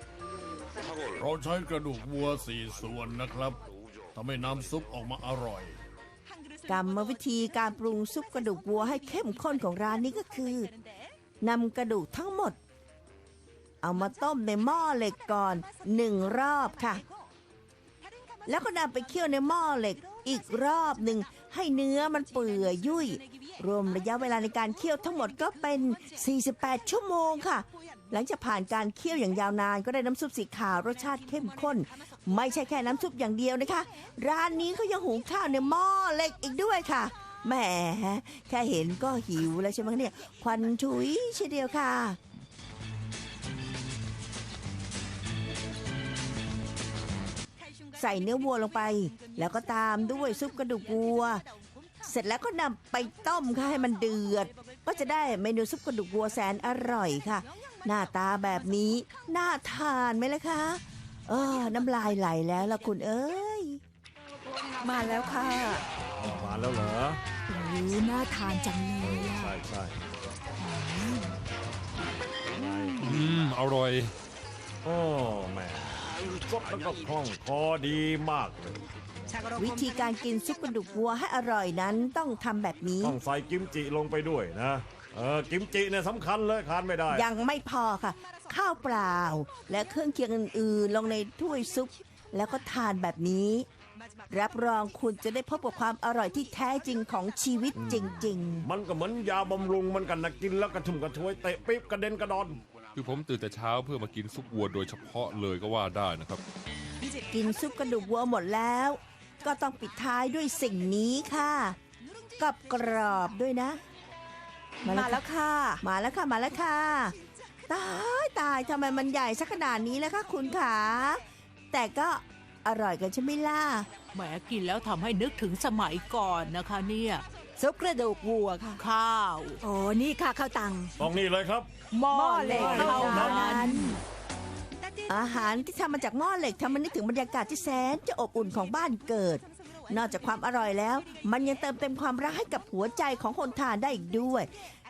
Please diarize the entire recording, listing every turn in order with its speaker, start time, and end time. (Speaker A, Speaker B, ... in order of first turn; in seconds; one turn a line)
Speaker A: 1.0-3.6
Speaker A: 4.2-5.8
Speaker B: 6.7-10.7
Speaker B: 11.4-12.6
Speaker B: 13.8-17.0
Speaker B: 18.5-42.2
Speaker B: 48.0-51.4
Speaker B: 52.0-63.8
Speaker C: 64.8-65.8
Speaker D: 66.2-67.2
Speaker E: 67.5-69.5
Speaker D: 69.0-70.0
Speaker E: 70.6-71.4
Speaker D: 72.5-73.4
Speaker F: 73.0-74.1
Speaker D: 74.8-78.9
Speaker B: 79.5-83.2
Speaker D: 83.0-87.3
Speaker B: 87.1-93.7
Speaker B: 94.3-98.7
Speaker D: 97.8-102.6
Speaker F: 103.0-106.4
Speaker B: 107.1-111.8
Speaker B: 112.4-113.8
Speaker C: 114.8-115.8
Speaker B: 114.9-115.2
Speaker B: 115.8-117.2
Speaker B: 117.7-123.9
Speaker G: 124.1-127.2
Speaker C: 127.6-128.8
Speaker G: 128.8-129.6
Speaker E: 129.6-131.0
Speaker D: 131.0-131.7
Speaker C: 131.9-134.0
Speaker E: 132.1-133.9
Speaker B: 132.3-133.9
Speaker D: 132.5-133.5
Speaker B: 135.1-144.5